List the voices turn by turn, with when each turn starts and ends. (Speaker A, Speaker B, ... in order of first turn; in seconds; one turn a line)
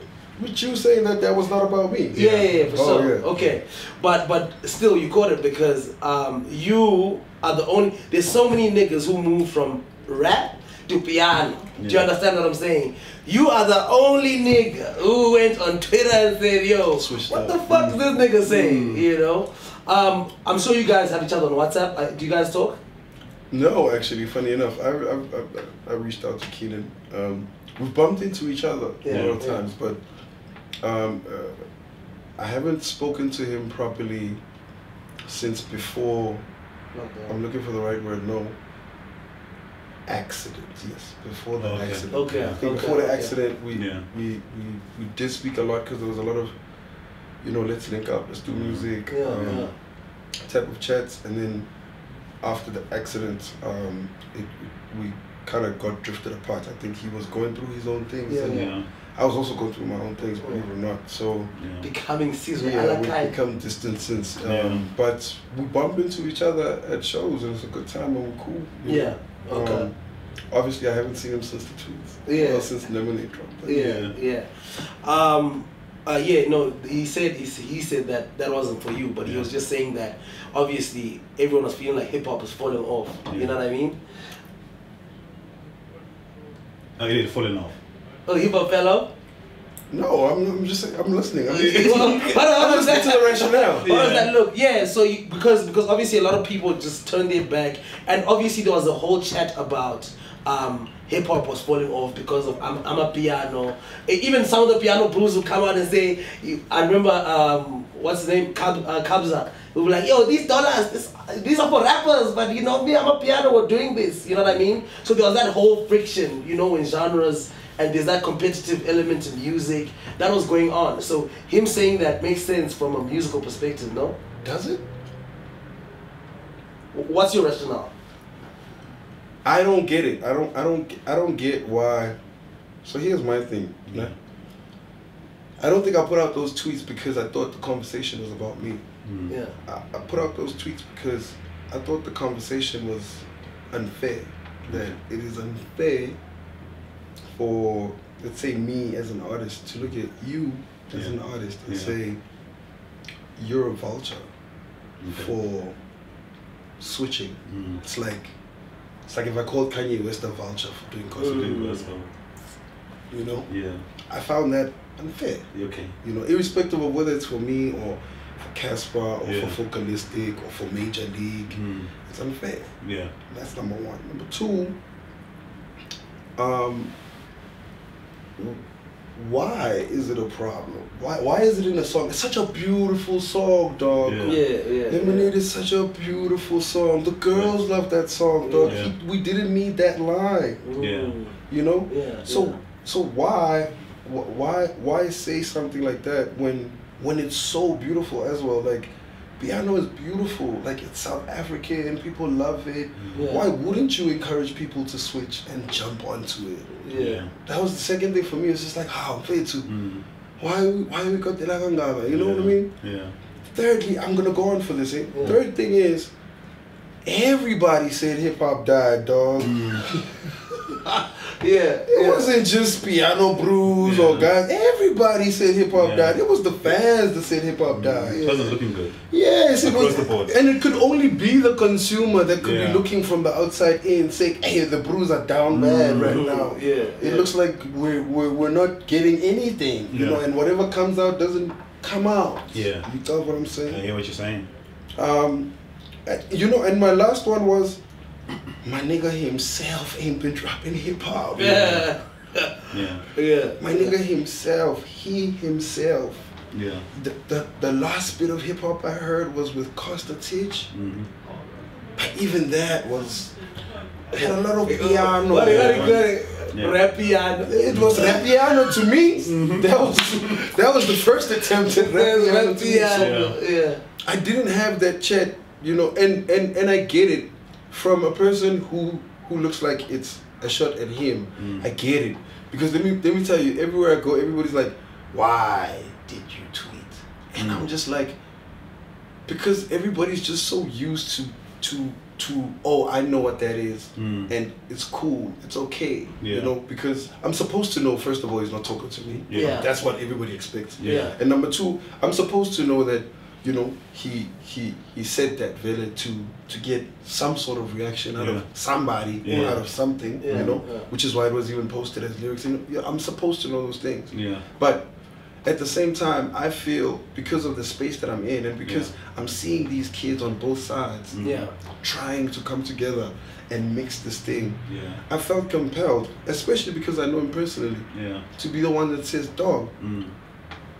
Speaker A: 0.3-3.3
Speaker B: 2.1-22.8
Speaker C: 2.2-2.5
Speaker C: 11.8-12.1
Speaker A: 16.9-18.0
Speaker C: 18.4-19.0
Speaker A: 23.5-30.0
Speaker B: 29.0-29.6
Speaker C: 29.1-29.4
Speaker A: 30.8-31.6
Speaker A: 32.4-34.4
Speaker A: 35.3-36.4
Speaker B: 36.9-37.4
Speaker A: 37.3-38.5
Speaker A: 40.0-46.5
Speaker C: 41.6-42.6
Speaker B: 42.1-43.4
Speaker C: 43.7-44.1
Speaker A: 47.4-49.7
Speaker C: 48.5-48.9
Speaker B: 49.1-49.7
Speaker A: 50.4-51.7
Speaker A: 52.4-61.5
Speaker B: 58.3-58.7
Speaker C: 58.5-58.9
Speaker C: 61.5-61.9
Speaker B: 61.8-63.3
Speaker A: 62.5-69.9
Speaker C: 64.4-64.8
Speaker B: 68.8-69.9
Speaker A: 70.5-73.9
Speaker B: 72.2-72.7
Speaker B: 73.7-84.0
Speaker C: 73.7-74.1
Speaker C: 79.2-79.5
Speaker C: 83.3-83.5
Speaker C: 87.0-87.7
Speaker B: 88.2-89.1
Speaker A: 89.9-93.9
Speaker B: 91.5-124.2
Speaker C: 93.8-94.3
Speaker A: 124.4-124.8
Speaker B: 126.9-127.9
Speaker A: 129.4-132.2
Speaker A: 132.8-134.1
Speaker C: 133.9-134.1
Speaker A: 135.6-138.8
Speaker C: 139.0-139.3
Speaker B: 139.3-139.5
Speaker A: 139.6-146.2
Speaker C: 144.7-145.0
Speaker A: 147.3-152.2
Speaker C: 151.7-151.9
Speaker A: 153.4-154.3
Speaker C: 155.0-155.3
Speaker A: 155.1-155.7
Speaker A: 156.8-158.3
Speaker C: 157.4-157.8
Speaker A: 159.1-161.6
Speaker B: 161.2-161.9
Speaker C: 161.2-162.1
Speaker A: 163.1-163.5
Speaker C: 163.5-163.8
Speaker A: 164.1-165.5
Speaker C: 165.5-165.9
Speaker A: 166.0-172.7
Speaker C: 169.2-169.6
Speaker C: 171.5-171.9
Speaker C: 172.8-173.1
Speaker A: 173.3-174.7
Speaker A: 176.4-176.9
Speaker A: 179.1-190.7
Speaker C: 184.0-184.4
Speaker B: 184.3-185.3
Speaker B: 188.4-188.8
Speaker C: 188.6-188.9
Speaker B: 190.6-191.4
Speaker C: 190.8-191.1
Speaker A: 191.5-206.7
Speaker B: 191.9-192.6
Speaker B: 203.1-203.5
Speaker B: 206.8-207.2
Speaker C: 206.9-207.3
Speaker A: 207.4-209.7
Speaker C: 209.6-210.0
Speaker A: 210.4-212.7
Speaker C: 212.0-213.1
Speaker A: 213.5-216.1
Speaker A: 217.0-220.3
Speaker C: 219.4-219.9
Speaker B: 220.8-222.3
Speaker A: 221.9-228.5
Speaker C: 223.8-224.3
Speaker C: 225.7-226.2
Speaker C: 227.7-229.0
Speaker B: 228.1-228.5
Speaker A: 229.1-243.8
Speaker C: 229.6-230.4
Speaker C: 232.4-232.8
Speaker C: 235.5-236.2
Speaker B: 236.0-237.3
Speaker C: 239.9-240.2
Speaker C: 242.5-242.9
Speaker C: 243.6-244.5
Speaker A: 244.9-245.5
Speaker A: 246.1-247.8
Speaker A: 248.6-251.8
Speaker B: 251.3-253.9
Speaker C: 251.4-251.8
Speaker C: 252.7-253.1
Speaker A: 253.6-256.3
Speaker C: 256.5-256.9
Speaker A: 256.9-260.7
Speaker C: 260.7-261.1
Speaker A: 261.9-263.4
Speaker A: 264.1-266.0
Speaker B: 264.1-268.5
Speaker C: 265.4-266.8
Speaker A: 267.4-273.4
Speaker C: 267.7-268.4
Speaker C: 269.1-269.9
Speaker B: 271.7-273.8
Speaker C: 272.9-273.4
Speaker A: 274.0-288.2
Speaker C: 281.4-281.7
Speaker C: 287.4-287.7
Speaker A: 289.3-314.9
Speaker C: 293.9-294.3
Speaker C: 296.2-296.5
Speaker C: 299.3-299.6
Speaker B: 299.3-299.7
Speaker C: 300.8-301.1
Speaker B: 300.8-301.1
Speaker C: 308.1-308.5
Speaker C: 309.2-309.6
Speaker B: 310.2-310.9
Speaker C: 310.3-310.6
Speaker C: 314.1-314.4
Speaker A: 315.4-321.2
Speaker C: 318.6-318.9
Speaker C: 321.1-321.5
Speaker B: 321.2-321.5
Speaker A: 321.8-329.7
Speaker C: 324.6-325.0
Speaker C: 327.9-328.2
Speaker C: 329.8-330.1